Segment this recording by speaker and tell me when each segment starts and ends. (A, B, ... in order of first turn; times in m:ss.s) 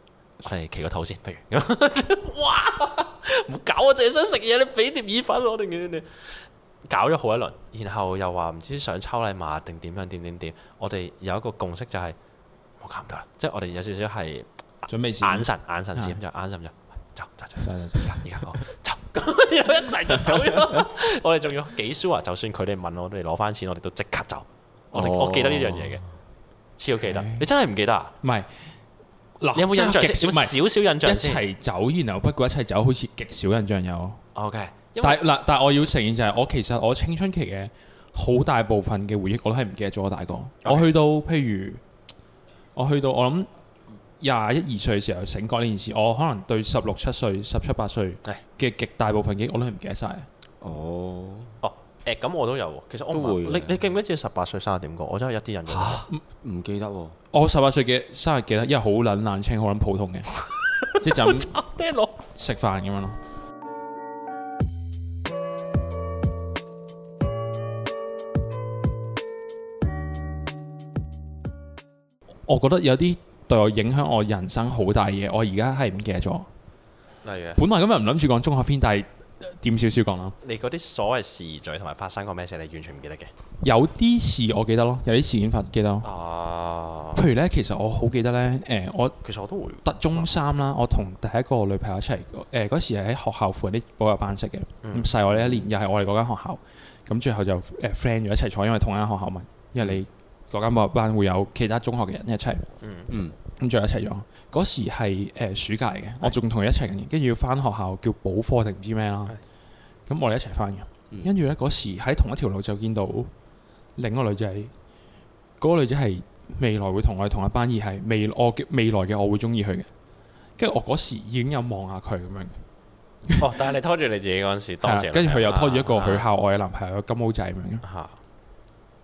0:00.4-0:12.2 A
0:12.8-0:26.0 A
0:14.9-0:16.2 B
0:17.6-0:18.2 B
0:24.9-0:26.0 C
0:26.8-0:28.1 A
0:27.0-0:27.5 B
0:28.2-0:28.7 B
0:29.4-0:34.2 B
0:29.5-0:31.4 A
0:34.3-0:35.2 A
0:35.0-0:41.8 B
0:40.6-0:40.9 A
0:42.8-0:43.5 B
0:44.2-0:50.3 B
0:50.6-0:51.6 C
0:51.6-0:56.1 A
0:53.1-0:53.8 C
0:55.7-0:57.2 C
0:57.3-1:00.3 B
1:00.5-1:02.2 A
1:01.0-1:01.5 B
1:02.3-1:03.2 B
1:12.5-1:16.5 B
1:17.2-1:17.6 A
1:17.6-1:20.4 B
1:20.4-1:23.3 A
1:23.6-1:26.1 B
1:26.0-1:27.2 A
1:27.1-1:29.2 B
1:29.2-1:30.3 A
1:29.8-1:42.7 B
1:34.8-1:35.1 A
1:35.3-1:35.6 C
1:42.8-1:43.1 A
1:43.1-1:43.3 C
1:43.6-1:49.4 B
1:50.1-1:53.3 B
1:54.0-1:54.7 B
1:55.6-1:59.9 B
2:00.6-2:02.6 B
2:03.4-2:06.3 A
2:04.8-2:07.8 B
2:07.8-2:08.2 A